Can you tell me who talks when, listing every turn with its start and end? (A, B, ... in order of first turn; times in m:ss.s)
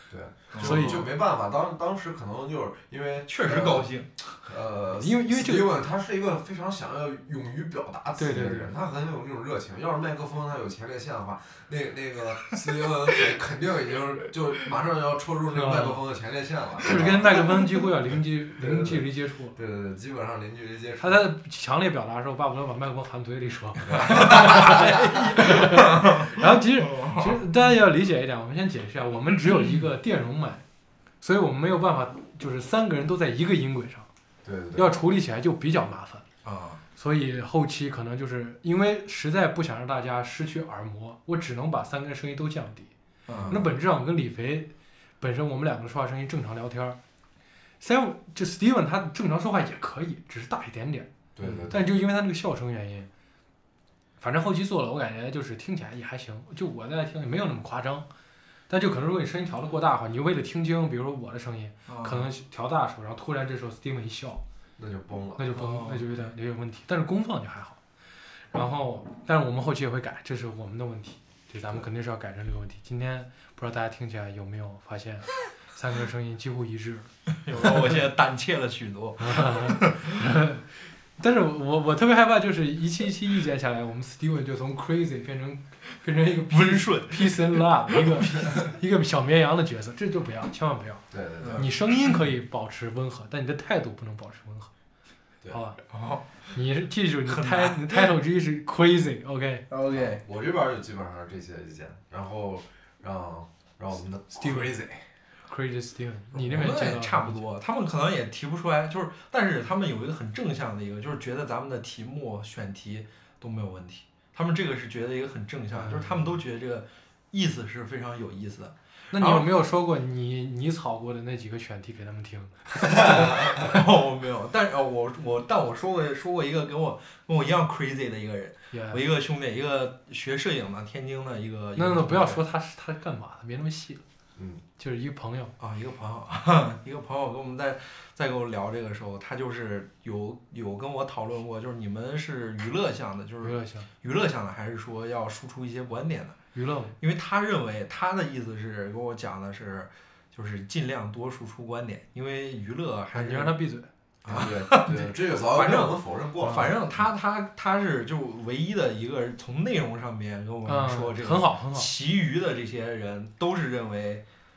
0:00.1-0:03.9 A
0:00.5-0:01.1 B
0:00.6-0:01.1 C
0:03.3-0:04.4 B
0:04.4-0:17.4 A
0:05.0-0:05.7 C
0:08.2-0:08.7 C
0:15.5-0:16.0 C
0:16.8-0:19.6 C
0:18.6-0:21.3 A
0:21.0-0:30.6 C
0:23.8-0:25.0 A
0:24.0-0:27.4 B
0:31.2-0:34.1 C
0:34.4-0:35.0 A
0:34.7-0:36.2 C
0:36.4-0:36.8 B
0:37.0-0:42.9 C
0:43.3-0:43.6 B
0:43.3-0:43.7 A
0:43.5-0:47.0 C
0:47.8-0:51.1 C
0:51.4-0:51.8 A
0:51.4-0:51.7 B
0:51.7-0:53.1 C
0:54.2-0:58.1 C
0:58.7-1:04.4 C
1:01.9-1:02.3 B
1:04.8-1:05.5 A
1:05.4-1:07.8 C
1:05.5-1:06.0 B
1:08.5-1:17.9 C
1:17.4-1:20.1 B
1:19.2-1:31.0 C
1:26.5-1:28.3 B
1:31.1-1:31.7 A
1:31.4-1:31.7 B
1:31.6-1:34.7 C
1:35.5-1:35.8 C
1:35.9-1:36.5 B
1:36.5-1:39.6 C
1:37.2-1:38.1 B
1:39.7-1:40.2 B
1:39.9-1:45.0 A
1:44.3-1:44.7 C
1:45.5-1:47.4 C
1:46.3-1:59.5 B
1:55.7-1:56.4 C
1:59.1-2:03.6 C
2:02.9-2:12.4 B
2:08.7-2:09.0 C
2:11.8-2:14.0 C
2:14.4-2:14.6 A
2:14.8-2:15.5 C
2:15.6-2:26.4 B
2:23.4-2:23.9 C
2:26.5-2:26.9 C
2:27.0-2:33.6 B
2:33.1-2:33.9 C
2:34.2-2:44.2 B
2:34.3-2:36.8 A
2:40.6-2:41.9 C